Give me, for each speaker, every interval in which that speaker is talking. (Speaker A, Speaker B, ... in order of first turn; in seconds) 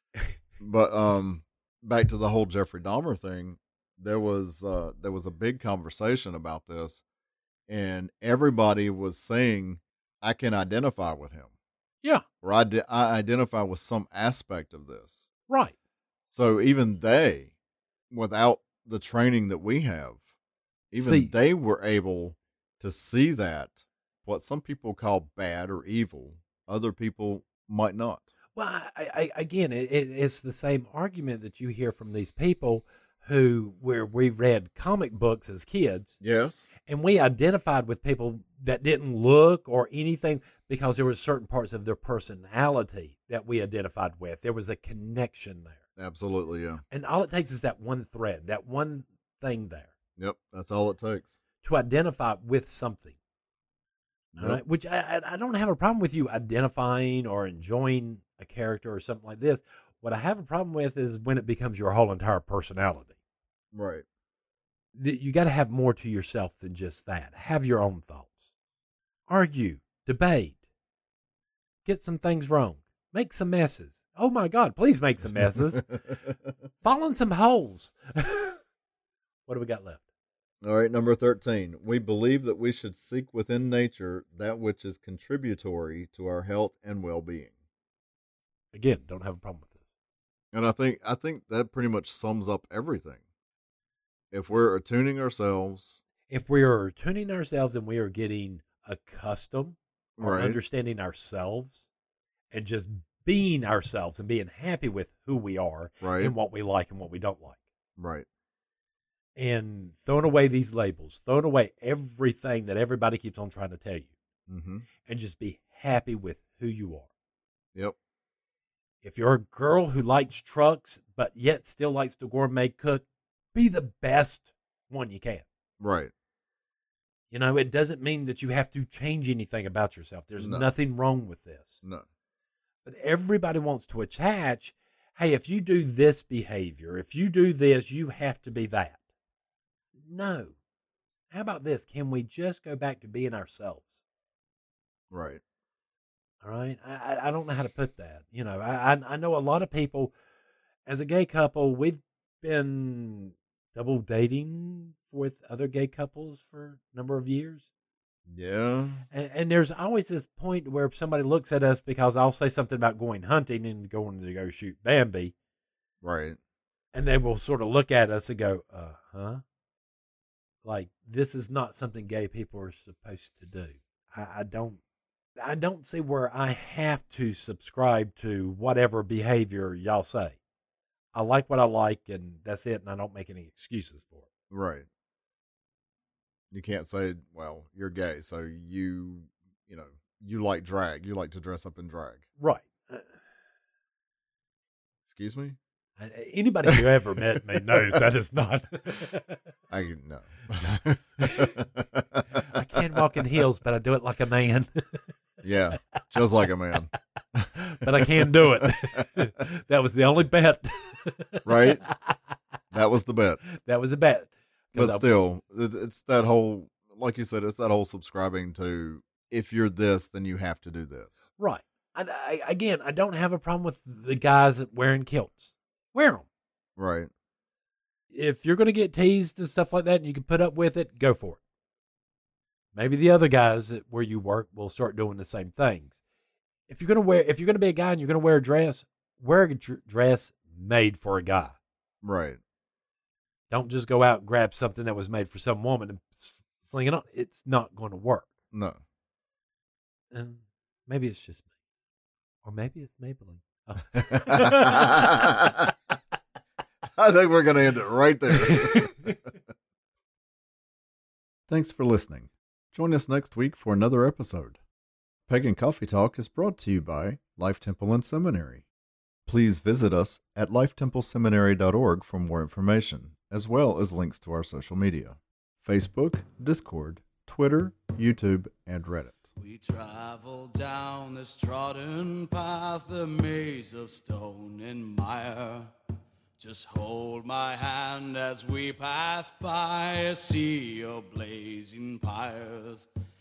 Speaker A: 0.6-7.0, 7.7-11.5, 12.4-15.2, 16.3-17.5, 18.1-20.2, 20.9-28.3, 36.2-36.7, 46.0-46.8, 50.2-51.4, 54.3-54.6, 63.7-64.0, 75.3-76.3, 80.6-87.5, 90.5-93.2, 94.3-96.0, 100.2-100.6, 106.0-106.3, 108.0-108.2, 114.5-114.8, 125.8-126.1, 130.4-130.7, 145.1-145.4, 158.3-159.0, 166.0-166.4, 184.5-184.9, 186.5-192.2, 195.1-195.6, 196.7-197.0, 199.7-203.0, 205.4-209.1, 211.4-211.8, 212.7-213.4, 214.7-221.3, 226.8-227.1, 242.0-242.4, 248.5-248.8, 253.9-255.7, 256.9-259.3, 261.5-264.6, 265.3-268.6, 269.2-279.2
Speaker B: 20.9-21.3, 28.5-36.1, 36.9-45.8, 46.9-49.9, 51.6-53.1, 54.4-63.1, 64.9-68.5, 69.3-70.6, 71.8-75.8, 76.8-78.6, 79.5-80.0, 88.7-89.8, 96.3-101.9, 102.5-107.6, 109.4-114.1, 115.0-117.1, 119.0-125.5, 127.3-131.8, 132.8-139.0, 140.0-140.5, 141.3-144.0, 146.4-150.1, 150.8-157.7, 159.1-165.3, 166.9-169.4, 170.6-174.8, 175.4-180.4, 181.1-184.3, 192.4-193.1, 196.0-199.4, 201.2-201.5, 202.3-205.1, 207.5-212.2, 213.6-215.1, 221.4-226.2, 228.1-231.4, 232.7-236.0, 236.7-241.6, 243.5-248.3, 250.1-251.4, 252.4-255.3, 258.3-259.1
Speaker C: 279.4-285.7, 286.4-292.9